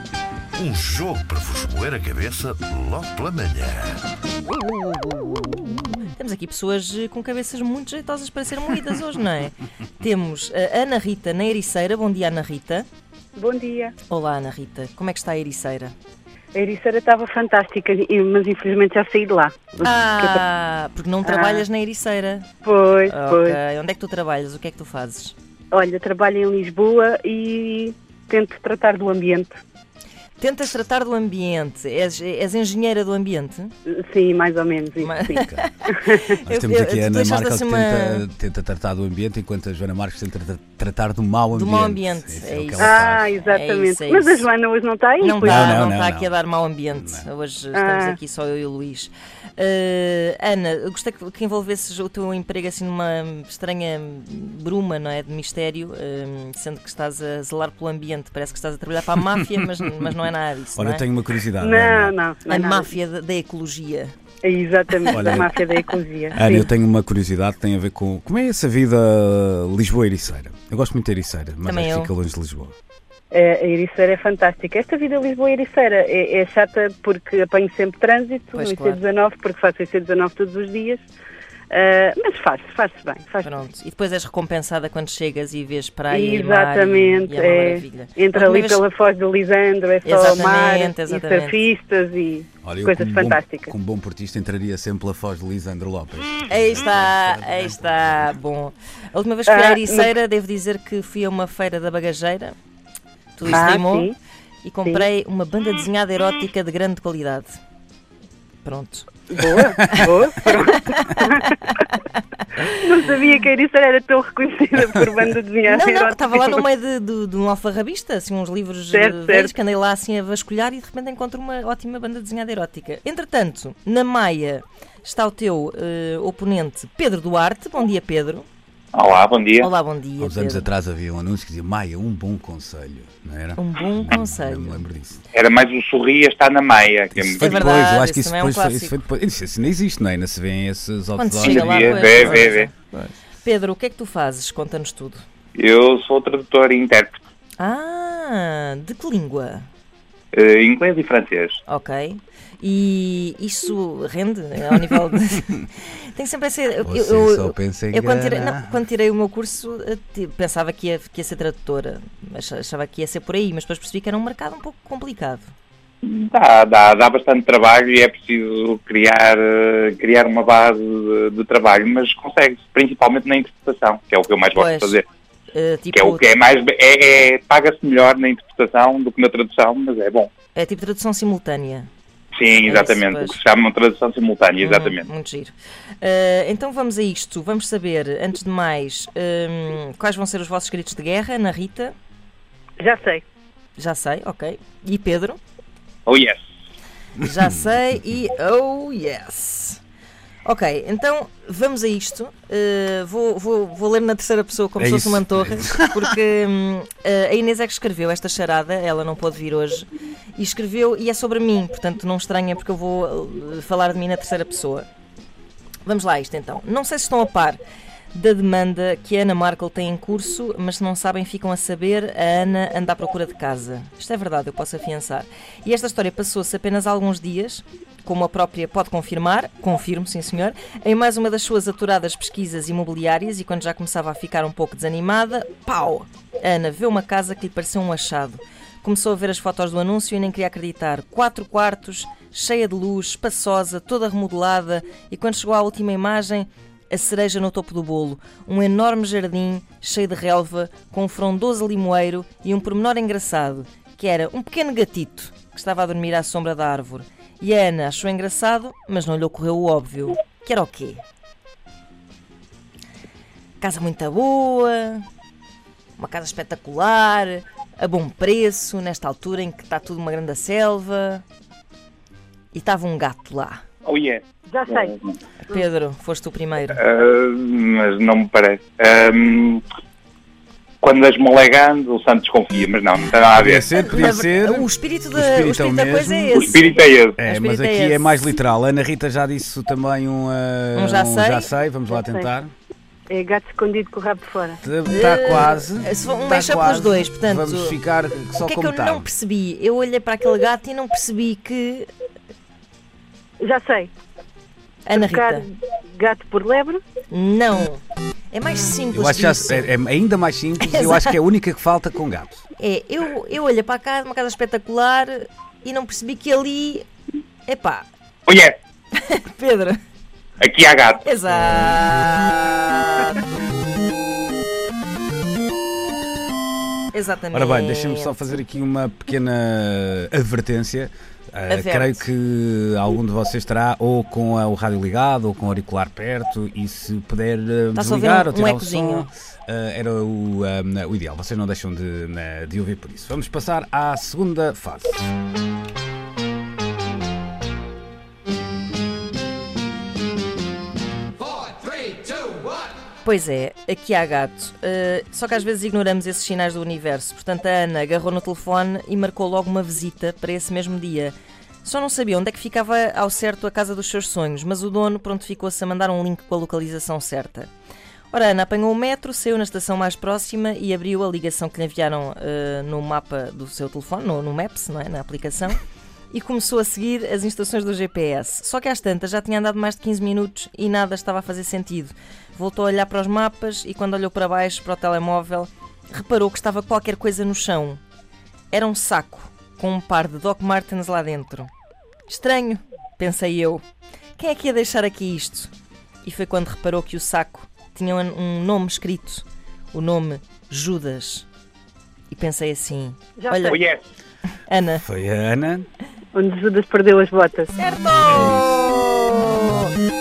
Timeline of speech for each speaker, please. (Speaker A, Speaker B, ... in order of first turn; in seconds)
Speaker A: 0.5-4.0
Speaker B: 4.5-12.9, 14.1-15.9, 19.8-22.5, 23.1-25.3, 30.4-33.7, 35.0-38.2, 41.5-44.5, 45.2-61.0, 62.5-64.1, 65.0-65.9, 71.6-72.1, 78.5-79.0, 83.4-88.8, 90.0-91.7, 96.4-102.5, 103.3-104.1, 104.6-107.6, 108.6-109.1, 110.5-112.0, 115.6-128.5, 129.6-130.7, 133.6-134.8, 137.4-139.0, 141.1-142.8, 143.4-145.2, 147.6-149.7, 151.7-165.5, 174.5-175.0, 175.5-176.3, 180.5-181.9, 182.7-183.4, 184.6-191.9, 193.8-195.4, 197.2-199.8, 200.4-214.9, 215.8-217.6, 218.1-261.0, 263.6-265.0, 266.0-271.2, 272.5-273.6, 275.5-276.8, 283.7-288.3, 290.7-291.5, 294.9-297.8, 298.4-301.9, 304.8-305.4, 307.1-309.8, 310.6-311.1, 312.6-316.9, 317.5-317.9, 318.9-319.8, 321.0-323.8, 326.9-328.4, 331.5-332.0, 337.7-339.1, 353.0-367.5, 368.1-375.6, 376.1-387.8, 388.5-391.5, 392.1-393.6, 394.2-395.5, 396.0-401.2, 402.1-403.6, 404.5-404.8, 407.5-409.7
Speaker C: 13.3-13.9, 16.5-20.4, 21.2-21.6, 22.6-23.6, 25.7-29.6, 33.9-36.2, 42.8-45.8, 47.7-48.2, 61.6-62.9, 64.4-66.7, 73.3-81.0, 81.7-83.5, 86.1-93.7, 99.5-100.1, 103.5-104.1, 109.3-111.6, 112.6-116.6, 118.9-119.5, 192.8-193.2, 274.5-274.9, 291.9-292.2, 293.1-294.6, 303.4-303.9, 304.9-306.8, 403.2-403.6, 406.1-407.5
Speaker D: 35.3-35.6, 36.4-43.3, 45.4-46.4, 46.9-47.2, 60.8-62.1, 65.1-65.5, 66.3-72.7, 92.6-98.4, 109.4-110.1, 130.2-135.2, 137.1-143.1, 156.8-158.8, 204.8-206.1, 283.3-286.6, 287.2-292.5, 294.6-299.1, 308.9-312.4, 327.3-345.1, 404.7-405.7, 408.0-408.7
Speaker E: 128.9-129.7, 135.3-137.7, 141.4-142.7, 145.6-147.2, 150.3-151.6, 166.0-175.0, 175.9-180.3, 182.3-185.1, 196.1-196.4, 273.8-275.1, 276.7-279.6, 280.8-283.7, 286.3-287.2, 318.3-318.6, 320.4-321.0, 403.5-403.8